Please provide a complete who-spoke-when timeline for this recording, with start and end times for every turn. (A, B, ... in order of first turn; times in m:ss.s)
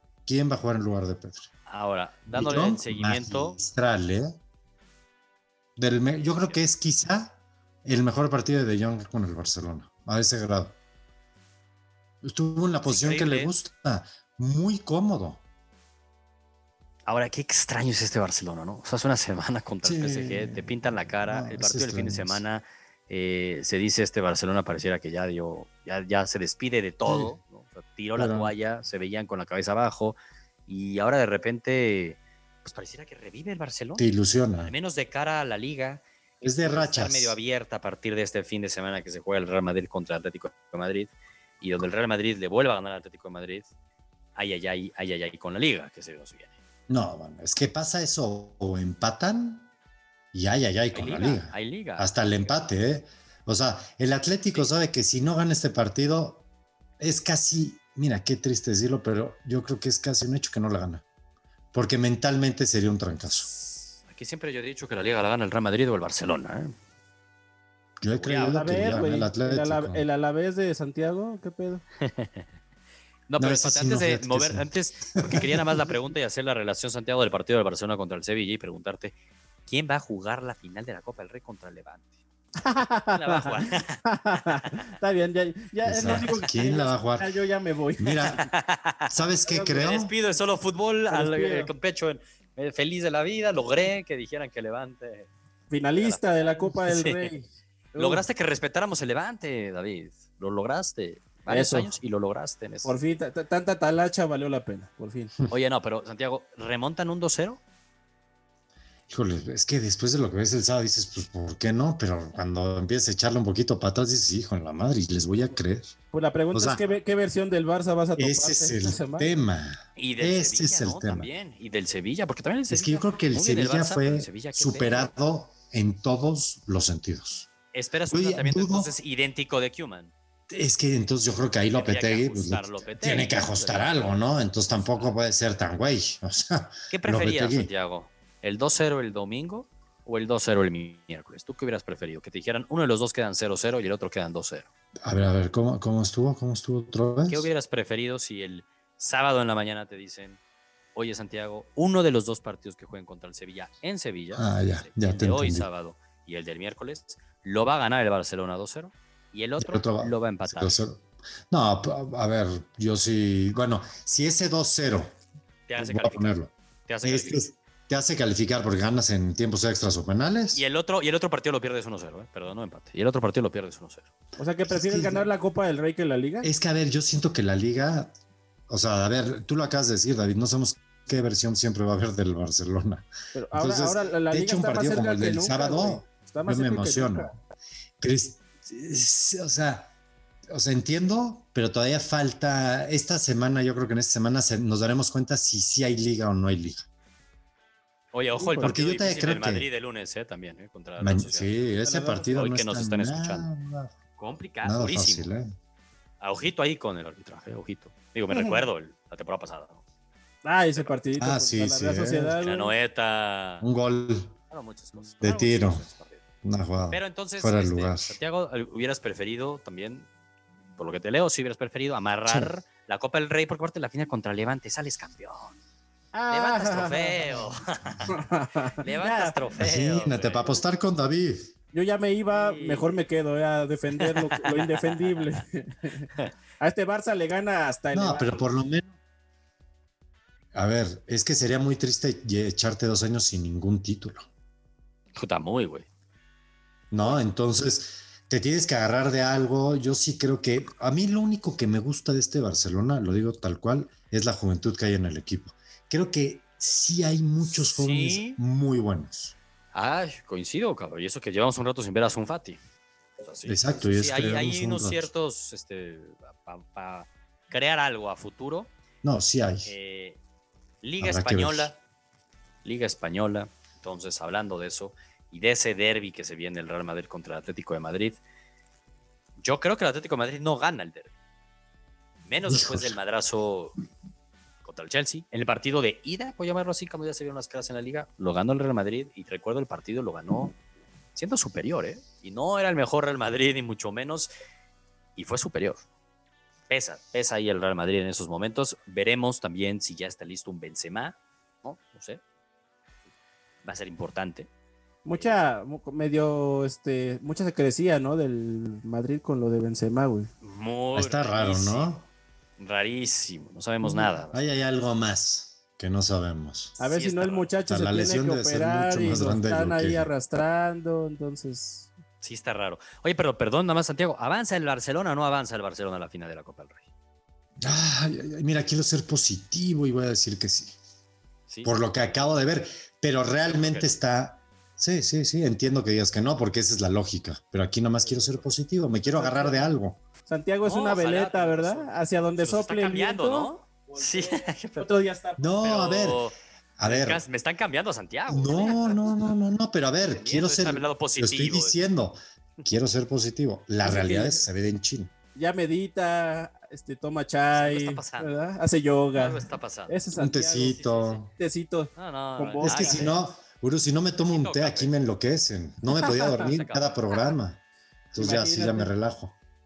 0:00.2-0:01.5 A
0:01.7-0:03.6 B
0:02.3-0:04.4 A
0:05.8-0:10.8 A
0:12.2-0:15.4 A
0:12.8-0:13.5 B
0:17.1-0:30.2 B
0:19.8-0:22.4 A
0:27.0-0:27.3 A
0:28.2-0:28.5 A
0:30.7-0:34.1 B
0:34.0-0:34.7 A
0:34.6-0:43.7 B
0:36.4-0:37.3 A
0:44.4-0:46.5 B
0:46.9-0:49.7 A
0:50.3-0:56.4 A
0:50.9-0:52.1 B
0:57.0-1:01.0 A
1:01.7-1:03.5 A
1:04.0-1:06.7 B
1:08.0-1:10.0 A
1:08.1-1:09.0 B
1:08.5-1:11.8 C
1:12.0-1:12.5 B
1:13.3-1:19.1 B
1:13.4-1:15.8 A
1:19.6-1:22.1 B
1:22.6-1:28.3 C
1:23.1-1:24.9 B
1:25.8-1:27.3 A
1:26.0-1:26.3 B
1:28.0-1:28.5 A
1:28.3-1:35.3 B
1:29.1-1:30.1 A
1:31.1-1:31.7 C
1:35.7-1:38.2 C
1:36.0-1:37.3 B
1:38.0-1:42.9 B
1:41.5-1:41.9 C
1:42.8-1:45.3 C
1:45.5-1:47.6 B
1:49.1-1:55.9 A
1:56.1-1:59.3 C
1:56.5-1:56.8 A
1:58.2-2:01.3 A
2:00.0-2:05.1 B
2:02.7-2:07.5 A
2:07.7-2:10.1 B
2:08.1-2:08.9 A
2:10.5-2:17.7 A
2:11.7-2:14.2 B
2:14.8-2:15.1 B
2:16.9-2:24.7 B
2:25.0-2:27.5 A
2:27.3-2:30.4 B
2:30.9-2:40.8 B
2:34.3-2:35.7 A
2:39.6-2:45.1 A
2:45.7-2:46.4 B
2:45.8-2:46.5 A
2:46.9-2:47.4 B
2:47.0-2:50.6 A
2:50.5-2:54.1 B
2:54.4-2:56.5 C
2:54.6-2:55.3 A
2:56.4-2:58.1 A
2:58.7-3:07.3 A
3:03.3-3:07.3 C
3:08.0-3:09.9 A
3:10.5-3:16.8 A
3:18.1-3:23.5 B
3:18.4-3:18.7 C
3:18.6-3:19.7 A
3:21.0-3:23.9 A
3:21.8-3:22.3 C
3:24.2-3:25.3 B
3:24.6-3:25.5 A
3:26.2-3:29.8 B
3:28.3-3:28.6 C
3:30.4-3:32.7 C
3:31.2-3:32.4 A
3:32.3-3:33.6 B
3:33.6-3:34.3 A
3:34.5-3:36.2 B
3:35.2-3:35.8 A
3:36.4-3:38.2 A
3:36.9-3:40.1 B
3:40.8-3:45.5 B
3:42.3-3:42.5 A
3:46.1-3:47.3 C
3:46.3-3:48.2 B
3:48.1-3:49.4 C
3:48.8-3:50.6 B
3:49.6-3:51.5 A
3:51.7-3:56.1 C
3:52.3-3:52.9 B
3:53.9-3:55.2 B
3:56.6-3:58.4 C
3:57.9-3:58.9 A
4:00.5-4:04.2 A
4:05.1-4:05.9 B
4:06.9-4:19.3 A
4:17.5-4:18.4 B
4:19.7-4:22.6 B
4:23.2-4:28.7 B
4:23.4-4:25.1 A
4:29.0-4:29.7 A
4:29.6-4:30.2 B
4:30.8-4:31.8 B
4:31.0-4:31.7 A
4:32.6-4:38.2 B
4:39.4-4:41.1 B
4:42.2-4:43.8 B
4:42.5-4:43.0 A
4:44.6-4:50.6 B
4:51.1-4:54.3 B
4:55.2-4:55.8 B
4:56.7-5:02.2 B
5:03.6-5:04.5 B
5:05.0-5:10.3 C
5:10.4-5:12.0 B
5:11.0-5:12.0 A
5:12.6-5:14.4 B
5:13.8-5:16.8 A
5:16.8-5:21.9 C
5:16.8-5:17.5 B
5:17.7-5:20.1 A
5:22.2-5:26.8 B
5:27.6-5:30.7 A
5:31.5-5:32.3 B
5:31.6-5:40.0 A
5:33.4-5:33.9 B
5:38.0-5:38.4 B
5:39.0-5:39.7 C
5:40.3-5:45.5 C
5:40.6-5:44.9 B
5:45.4-5:46.2 A
5:45.6-5:49.0 B
5:46.8-5:47.2 A
5:48.3-5:55.1 A
5:50.0-5:51.8 B
5:53.8-5:54.4 C
5:55.3-6:00.8 C
5:57.5-5:58.3 B
5:59.1-6:00.0 B
6:00.1-6:01.3 A
6:00.7-6:01.2 B
6:01.4-6:03.0 C
6:02.0-6:03.2 B
6:02.6-6:07.6 A
6:04.3-6:04.9 B
6:06.1-6:07.3 B
6:08.1-6:09.3 A
6:08.1-6:08.9 C